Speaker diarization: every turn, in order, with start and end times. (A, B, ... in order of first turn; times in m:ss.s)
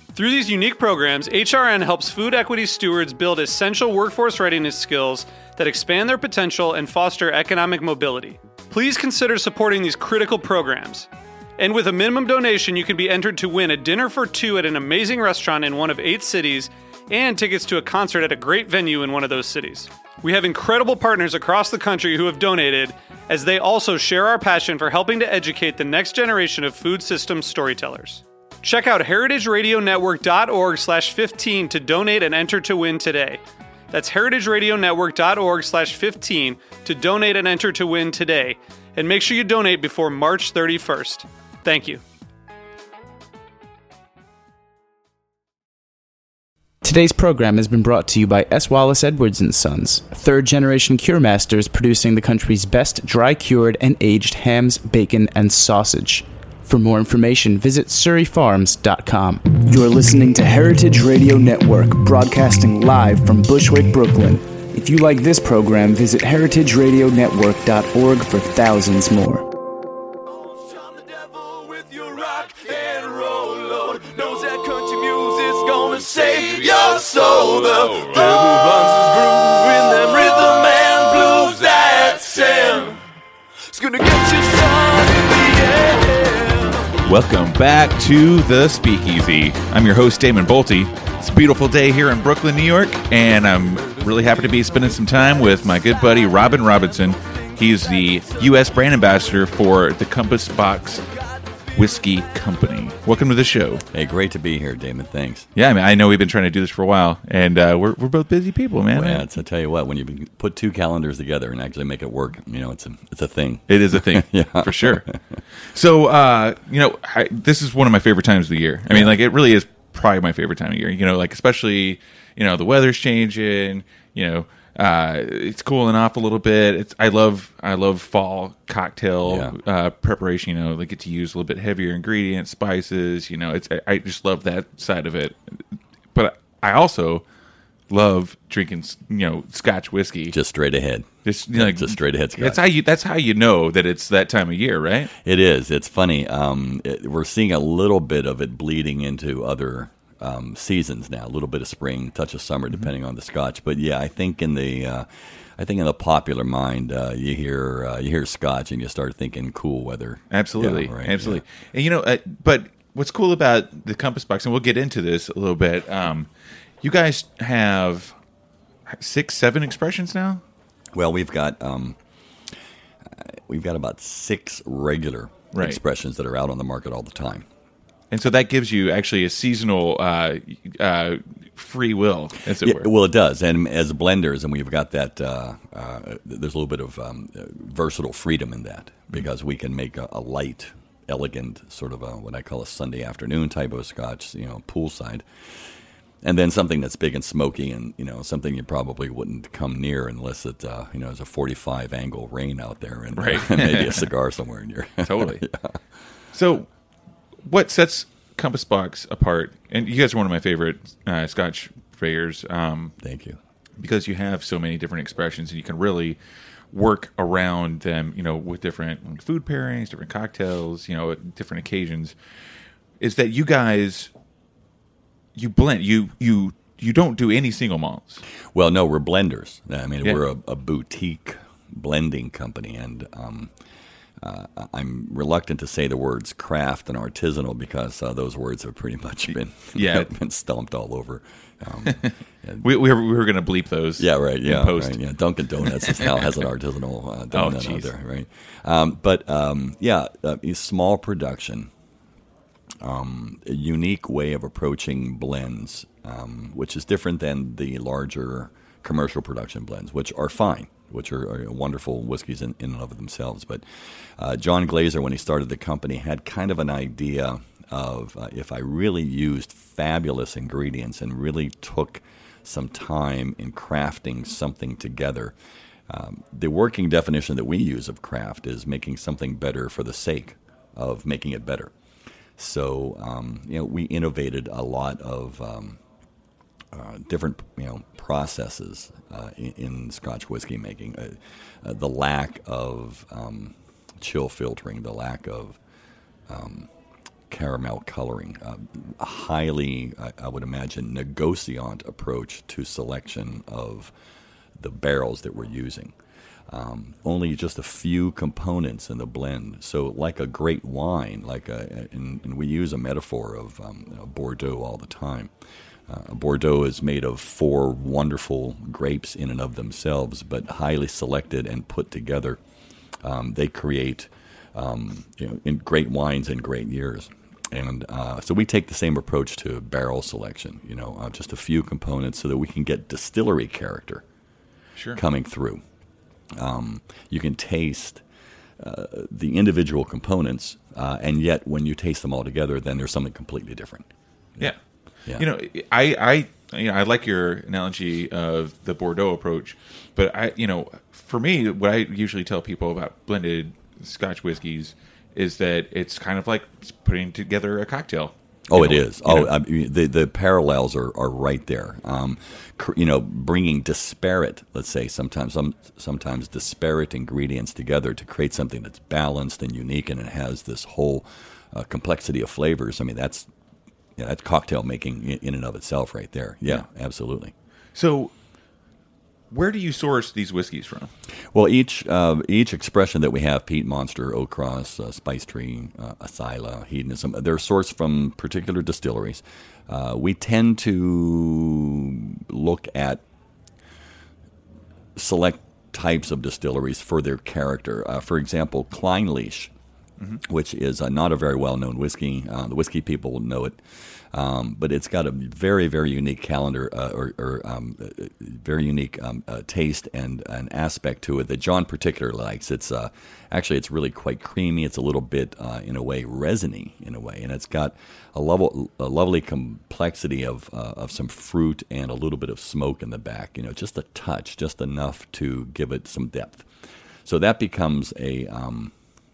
0:00.2-0:42.0 A
0:46.8-1:09.4 B
1:10.4-1:23.0 C
1:23.7-1:27.0 C
1:27.0-1:41.1 D
1:41.7-1:43.9 D
1:43.9-1:45.5 E
1:45.6-1:49.3 D
1:48.9-1:55.4 E
1:53.7-2:15.6 D
1:58.9-1:59.2 E
2:09.2-2:09.6 E
2:16.1-2:17.2 D
2:17.9-2:20.4 D
2:20.3-2:22.6 E
2:21.2-2:25.1 D
2:25.2-2:41.4 E
2:40.3-2:46.3 D
2:46.8-2:48.2 D
2:48.9-2:50.4 D
2:50.9-2:52.0 E
2:53.1-2:57.5 E
2:55.6-2:55.8 D
2:58.1-3:02.9 D
3:02.6-3:15.7 E
3:16.2-3:25.8 E
3:23.2-3:24.1 D
3:25.0-3:25.4 D
3:26.3-3:26.7 D
3:27.4-3:33.0 D
3:33.0-3:33.4 E
3:33.8-3:36.2 D
3:36.7-3:42.2 D
3:43.0-3:44.1 D
3:45.4-3:48.2 D
3:48.5-3:53.5 E
3:54.2-4:02.7 E
3:59.8-4:00.1 D
4:01.8-4:05.0 D
4:04.0-4:11.7 E
4:05.6-4:06.3 D
4:07.3-4:07.9 D
4:12.8-4:35.4 E
4:35.9-4:41.7 E
4:42.4-4:45.8 E
4:46.7-4:55.6 E
4:56.3-4:56.7 E
4:57.3-5:03.9 E
5:04.6-5:06.0 E
5:06.5-5:15.3 E
5:15.9-5:22.4 E
5:23.0-5:34.0 E
5:34.8-5:35.0 D
5:35.0-5:35.6 E
5:36.4-5:38.0 E
5:38.6-5:44.5 E
5:45.1-5:59.3 D
5:58.5-6:13.3 E
6:14.0-6:17.3 E
6:17.8-6:18.1 D
6:19.3-6:20.9 D
6:21.3-6:33.0 E
6:35.0-6:39.5 E
6:40.2-7:06.5 E
7:07.0-7:08.7 E